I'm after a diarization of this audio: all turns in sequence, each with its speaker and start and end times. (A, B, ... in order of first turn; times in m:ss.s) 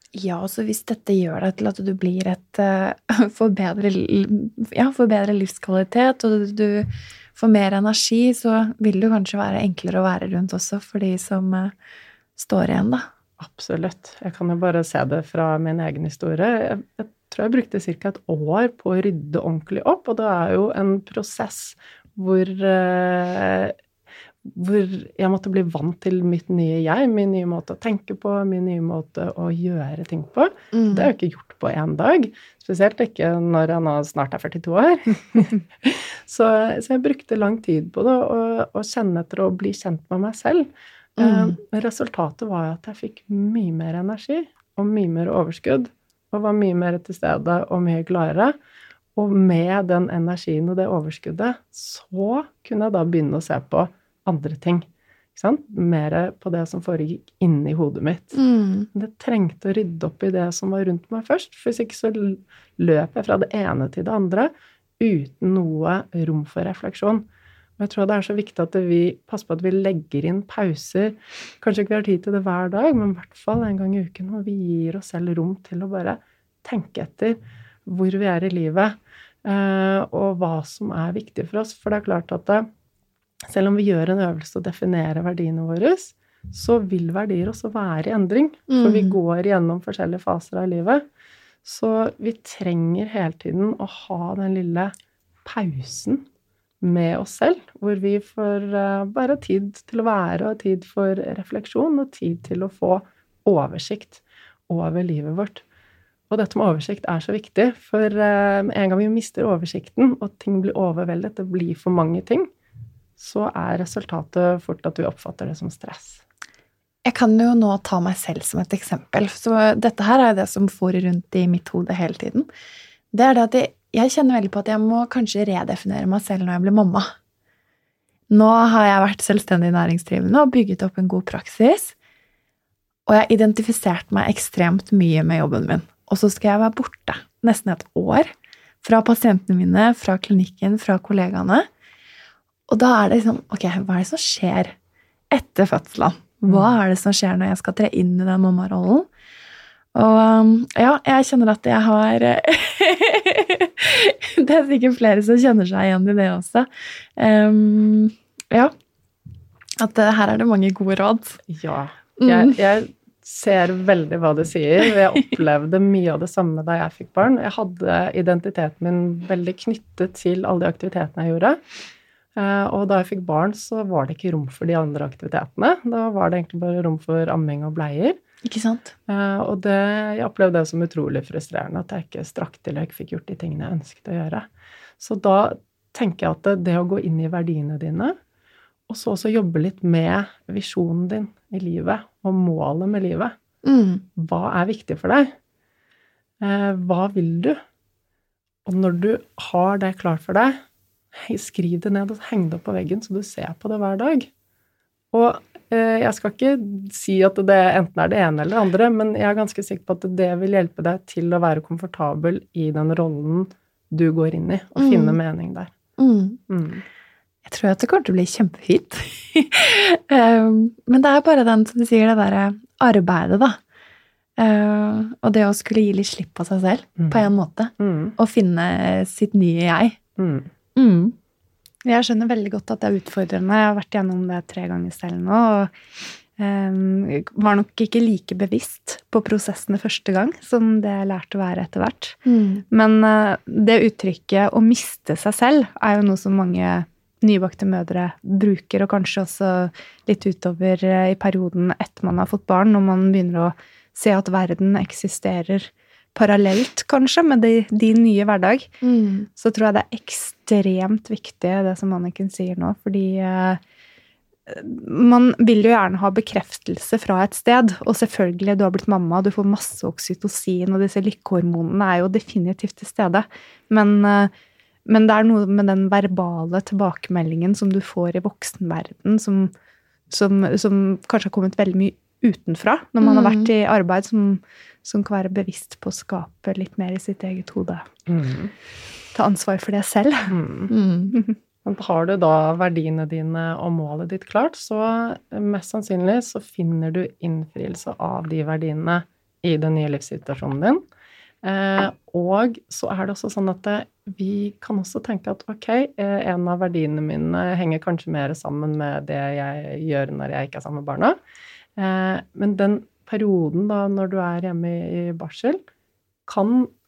0:00.1-0:11.7 A
0:12.4-0:13.1 A
0:13.4-0:23.8 B
0:24.4-0:48.5 B
0:30.7-0:31.1 A
0:41.2-0:41.6 A
0:49.2-0:58.4 B
0:58.3-0:58.9 A
0:58.9-1:07.2 B
1:07.8-1:22.7 B
1:23.5-1:31.0 B
1:28.7-1:29.2 A
1:31.6-1:34.9 B
1:35.4-1:36.2 B
1:36.8-1:45.6 B
1:46.3-1:52.5 B
1:53.2-1:56.2 B
1:57.0-2:02.5 A
2:03.1-2:07.1 A
2:08.3-2:12.0 A
2:13.1-2:18.3 A
2:18.8-2:21.7 A
2:22.7-2:24.7 A
2:25.3-2:29.1 A
2:26.5-2:26.7 B
2:29.9-2:38.7 A
2:39.8-2:41.4 A
2:41.5-2:51.6 B
2:42.2-2:42.5 A
2:52.4-2:58.2 B
2:58.4-2:58.9 A
2:59.1-3:04.4 B
3:05.0-3:08.1 B
3:08.9-3:13.3 B
3:13.6-3:14.0 A
3:14.2-3:15.3 B
3:16.4-3:17.6 B
3:18.6-3:20.6 B
3:21.1-3:24.3 B
3:25.1-3:35.7 B
3:34.8-3:35.2 A
3:36.0-3:36.4 A
3:36.5-3:36.8 B
3:37.4-3:43.6 A
3:44.4-3:50.0 A
3:47.0-3:48.1 B
3:50.2-3:50.5 B
3:50.8-3:51.2 A
3:51.8-3:55.7 C
3:56.4-4:02.2 C
4:02.2-4:02.6 A
4:02.7-4:18.7 C
4:18.8-4:19.3 A
4:19.4-4:23.6 C
4:24.5-4:34.3 C
4:34.9-4:39.5 C
4:40.1-4:47.8 C
4:43.0-4:43.5 A
4:48.1-4:48.5 B
4:49.1-4:50.3 C
4:50.3-4:50.7 B
4:50.7-4:51.1 A
4:51.6-5:00.8 B
5:01.4-5:11.2 B
5:11.8-5:15.6 B
5:16.3-5:16.7 B